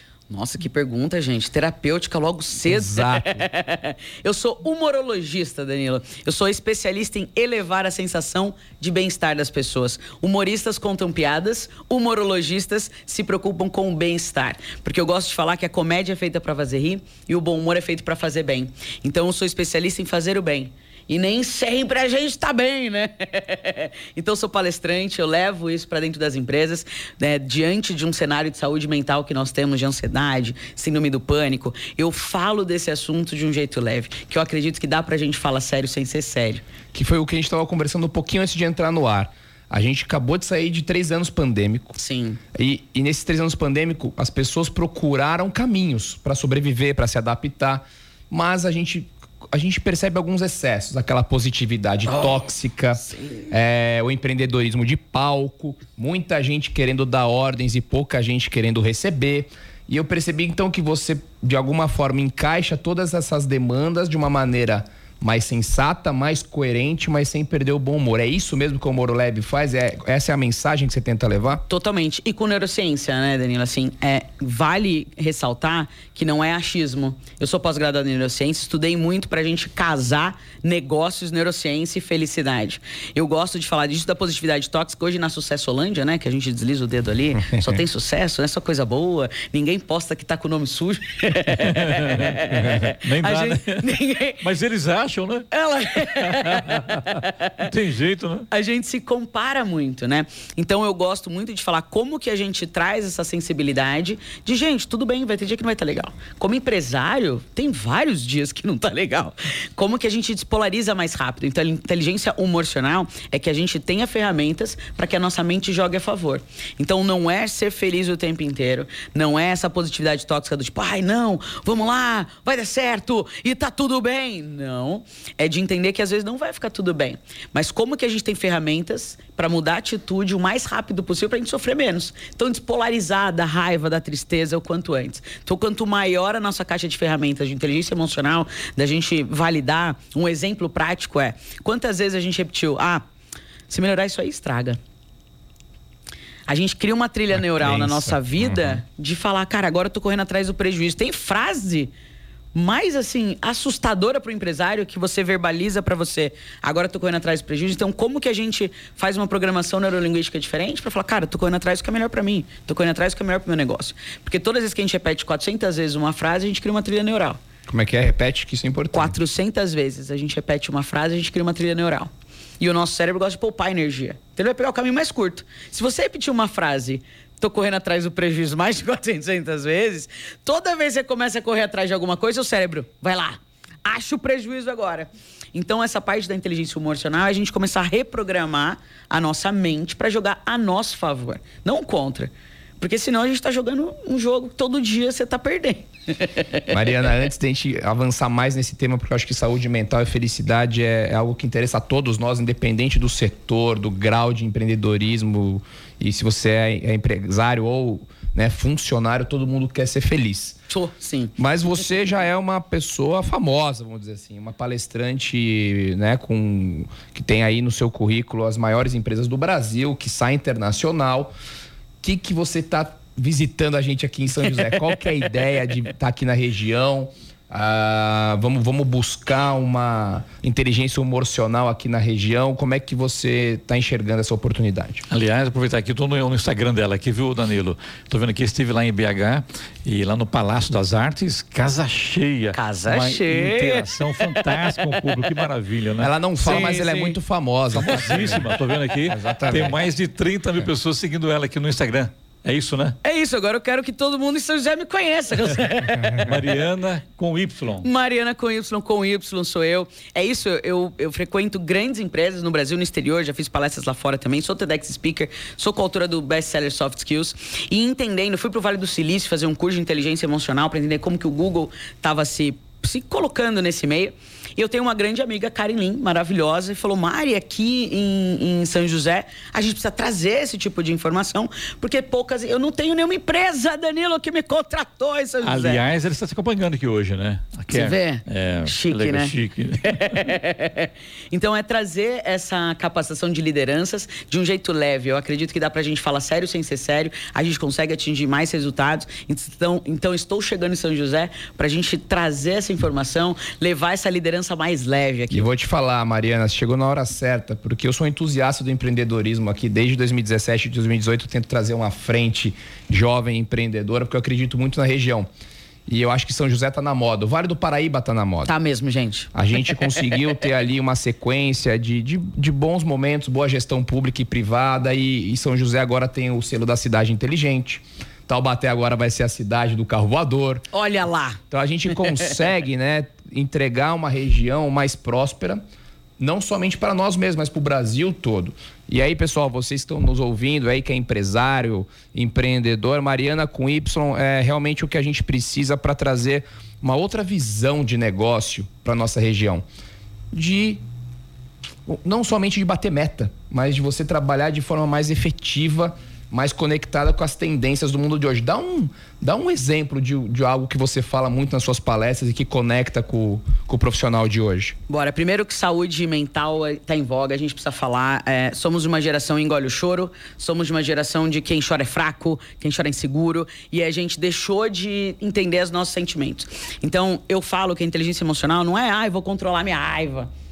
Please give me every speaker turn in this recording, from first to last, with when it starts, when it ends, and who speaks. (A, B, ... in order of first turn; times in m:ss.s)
0:00.3-0:36.6 A
0:02.6-0:03.5 B
0:36.9-0:42.0 B
0:42.0-0:42.4 A
0:42.6-1:11.7 B
0:52.1-0:52.4 A
0:53.0-0:53.5 A
1:11.7-1:34.5 A
1:27.5-1:27.8 B
1:31.5-1:35.5 C
1:35.5-1:37.5 A
1:36.0-1:38.5 C
1:38.5-2:23.0 A
2:23.7-2:24.8 A
2:26.5-2:31.9 A
2:27.6-2:28.2 C
2:32.5-2:47.4 A
2:47.7-2:49.2 B
2:48.9-3:16.8 A
3:16.7-3:30.6 B
3:30.7-3:31.4 A
3:31.4-3:41.3 B
3:42.0-3:55.0 B
3:55.1-4:07.1 C
4:02.5-4:04.7 A
4:06.0-4:08.6 B
4:06.4-4:07.2 A
4:07.7-4:13.0 C
4:09.1-4:09.8 B
4:13.0-4:16.3 A
4:16.0-4:17.9 C
4:17.8-4:45.8 A
4:45.4-4:50.3 C
4:47.7-5:05.5 A
5:05.3-5:15.3 B
5:15.9-5:18.5 B
5:18.5-5:19.8 A
5:19.3-5:30.7 B
5:30.7-5:31.4 A
5:31.5-5:35.6 B
5:32.0-5:32.4 A
5:36.2-5:49.6 B
5:50.3-5:50.8 B
5:51.9-6:04.8 B
6:04.9-6:20.3 A